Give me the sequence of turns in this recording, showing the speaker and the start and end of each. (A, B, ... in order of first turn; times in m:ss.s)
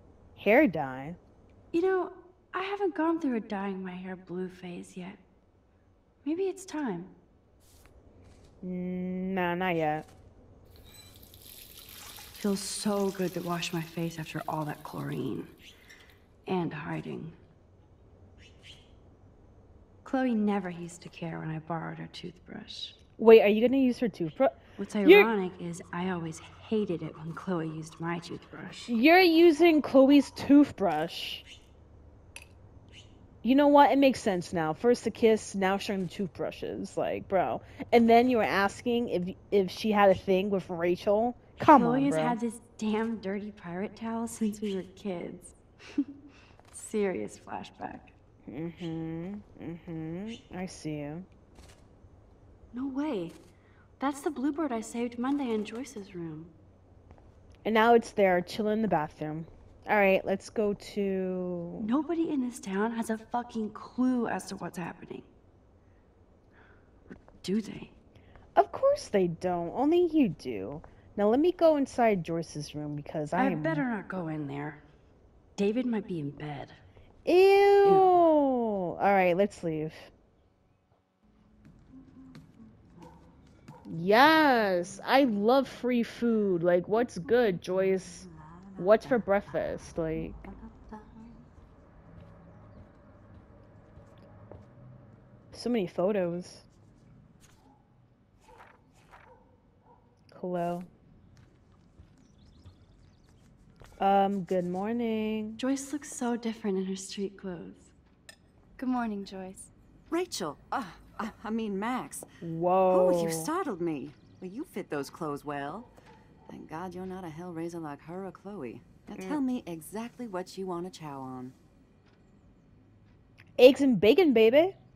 0:00.4-0:01.2 A
0:01.7-0:05.2 B
0:06.2-0:07.1 B
0:08.6-0:10.0 A
0:12.3-0:15.5 B
0:16.5-0:17.4 B
0:20.0-0:23.0 B
0:23.2-0:25.3 A
0:24.8-0:28.9 B
0:28.9-0:31.4 A
0:33.4-0:42.4 A
0:41.6-0:46.1 B
0:46.7-0:48.1 B
0:48.4-0:51.2 A
0:52.7-0:53.4 B
0:54.0-0:56.5 B
0:57.6-1:01.9 A
1:01.8-1:05.3 B
1:07.4-1:07.9 B
1:08.6-1:13.8 A
1:13.3-1:14.8 B
1:15.6-1:16.8 B
1:17.2-1:20.1 A
1:17.8-1:18.1 B
1:23.9-1:28.2 A
1:28.3-1:29.2 C
1:28.8-1:30.4 A
1:30.4-1:31.4 C
1:35.5-1:36.6 A
1:40.3-1:40.9 A
1:44.0-1:45.6 A
1:45.6-1:47.9 B
1:48.8-1:49.7 B
1:50.1-1:52.3 C
1:52.4-1:53.5 A
1:52.9-1:55.9 C
1:56.5-2:01.6 C
1:59.1-1:59.4 A
2:03.6-2:04.8 A